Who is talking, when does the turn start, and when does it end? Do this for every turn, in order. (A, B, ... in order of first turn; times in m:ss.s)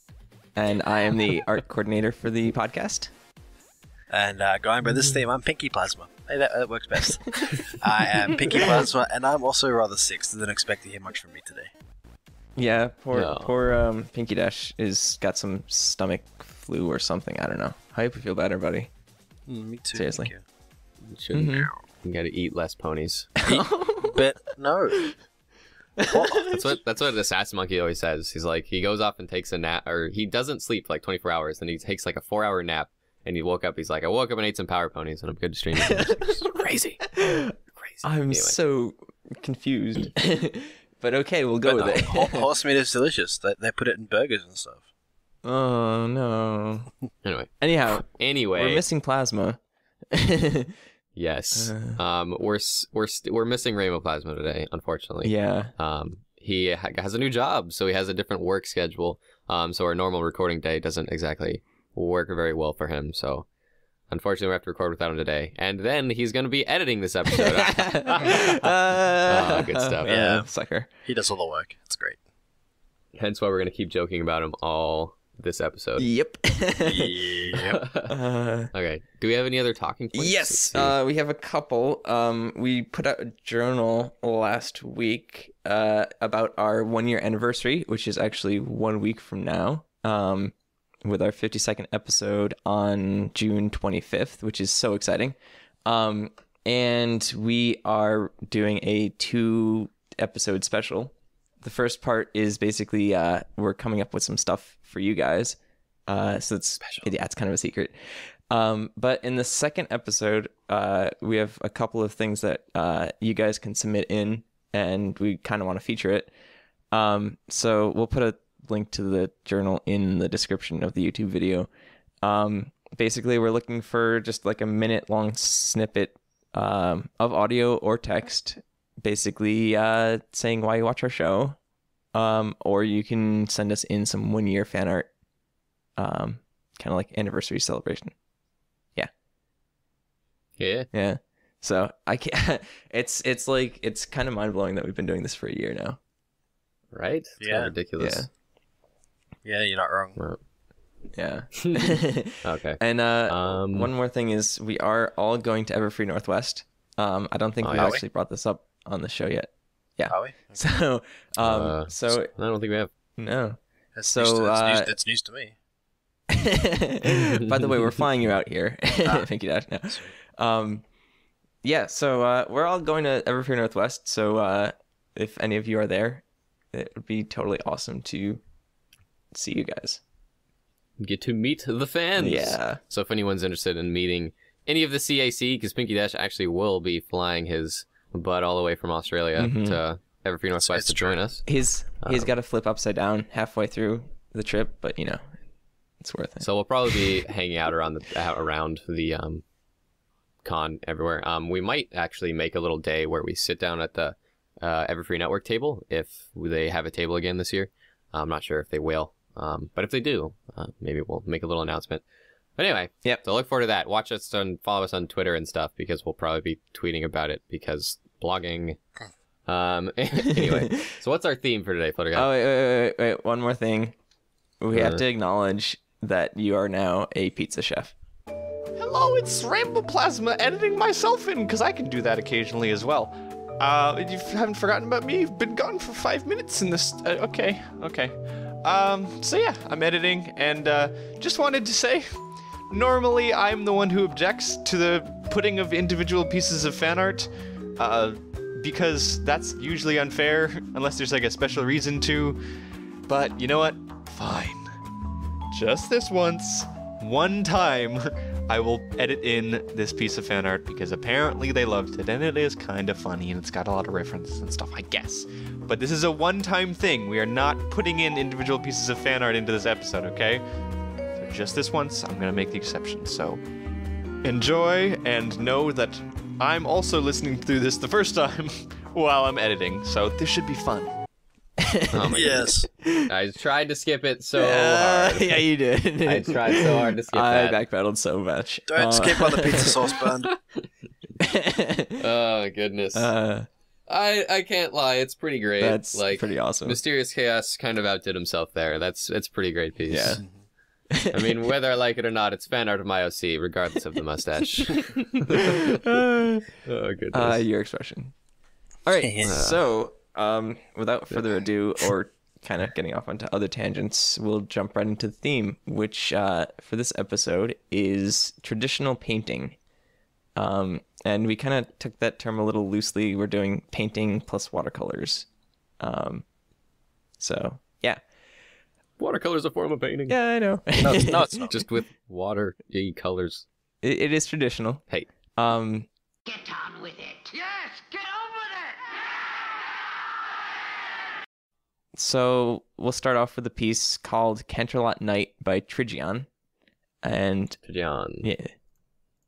0:00.5-0:03.1 A
0:04.1-0:11.7 B
0:12.6-0:18.9 A
0:13.1-0:13.5 C
0:19.5-0:20.4 B
0:19.9-0:20.3 A
0:21.2-0:21.8 B
0:21.3-0:21.7 A
0:22.0-0:23.3 C
0:23.4-0:24.2 A
0:23.4-0:25.1 B
0:26.0-0:26.5 A
0:26.1-0:26.5 B
0:26.5-0:37.0 C
0:37.1-0:42.5 A
0:37.8-0:38.5 C
0:41.6-0:42.0 C
0:41.8-0:44.8 B
0:45.4-0:46.9 A
0:47.2-0:48.8 C
0:47.6-0:49.6 A
0:50.1-0:50.8 A
0:51.1-1:03.5 C
0:51.6-0:52.0 A
0:55.2-0:55.7 A
1:04.1-1:08.7 C
1:07.4-1:10.9 A
1:09.2-1:10.1 C
1:10.0-1:10.5 B
1:11.0-1:12.2 B
1:13.2-1:16.1 C
1:16.0-1:17.3 A
1:16.8-1:17.8 B
1:17.6-1:18.1 C
1:18.1-1:18.7 A
1:18.7-1:20.9 C
1:20.1-1:56.3 A
1:46.8-1:47.1 C
1:56.9-2:01.7 A
2:02.2-2:11.6 A
2:12.1-2:15.1 A
2:16.0-2:18.1 A
2:20.6-2:20.9 C
2:20.9-2:26.0 A
2:26.9-2:28.2 C
2:27.4-2:27.7 B
2:28.0-2:28.3 A
2:29.4-2:30.2 B
2:30.2-2:30.4 C
2:31.1-2:42.3 A
2:31.6-2:33.9 C
2:37.6-2:38.0 C
2:37.7-2:38.0 B
2:40.1-2:40.6 B
2:41.4-2:42.9 C
2:43.2-2:44.9 A
2:44.0-2:45.6 B
2:46.3-2:50.8 A
2:51.6-2:58.4 A
2:59.3-3:00.0 A
3:01.0-3:11.4 C
3:02.2-3:02.8 A
3:09.4-3:09.8 A
3:10.6-3:11.2 B
3:11.4-3:15.2 A
3:12.0-3:12.3 C
3:16.0-3:17.0 A
3:16.4-3:19.4 C
3:20.4-3:32.0 C
3:32.6-3:38.8 C
3:39.5-3:42.3 C
3:40.3-3:40.7 A
3:42.1-3:44.0 A
3:44.6-3:47.9 A
3:44.7-3:45.0 C
3:48.7-4:14.8 D
4:15.5-4:30.4 D
4:31.1-4:33.4 D
4:34.2-4:40.9 D
4:41.6-4:42.2 A
4:41.9-4:45.4 C
4:42.1-4:42.7 B
4:42.8-4:43.1 A
4:44.4-4:50.0 A
4:46.0-4:47.6 C
4:48.7-4:50.3 B
4:51.2-4:52.0 A
4:52.0-4:53.1 C
4:52.9-4:53.5 A
4:53.9-5:00.2 C
4:55.6-4:56.8 A
4:59.9-5:00.2 A
5:00.9-5:01.3 A
5:01.1-5:05.8 C
5:04.8-5:06.5 A
5:06.6-5:07.4 C
5:07.1-5:08.1 A
5:08.8-5:19.6 A
5:09.0-5:09.4 B
5:09.2-5:09.6 C
5:20.4-5:25.3 A
5:25.8-5:26.2 A
5:27.2-5:28.0 A
5:29.0-5:30.2 C
5:30.1-5:31.4 A
5:30.8-5:31.6 B
5:31.5-5:33.4 C
5:33.8-5:34.8 A
5:35.4-5:35.9 A
5:36.3-5:39.5 E
5:41.9-5:46.3 A
5:47.0-5:47.6 A
5:47.6-5:48.3 C
5:48.2-5:48.5 A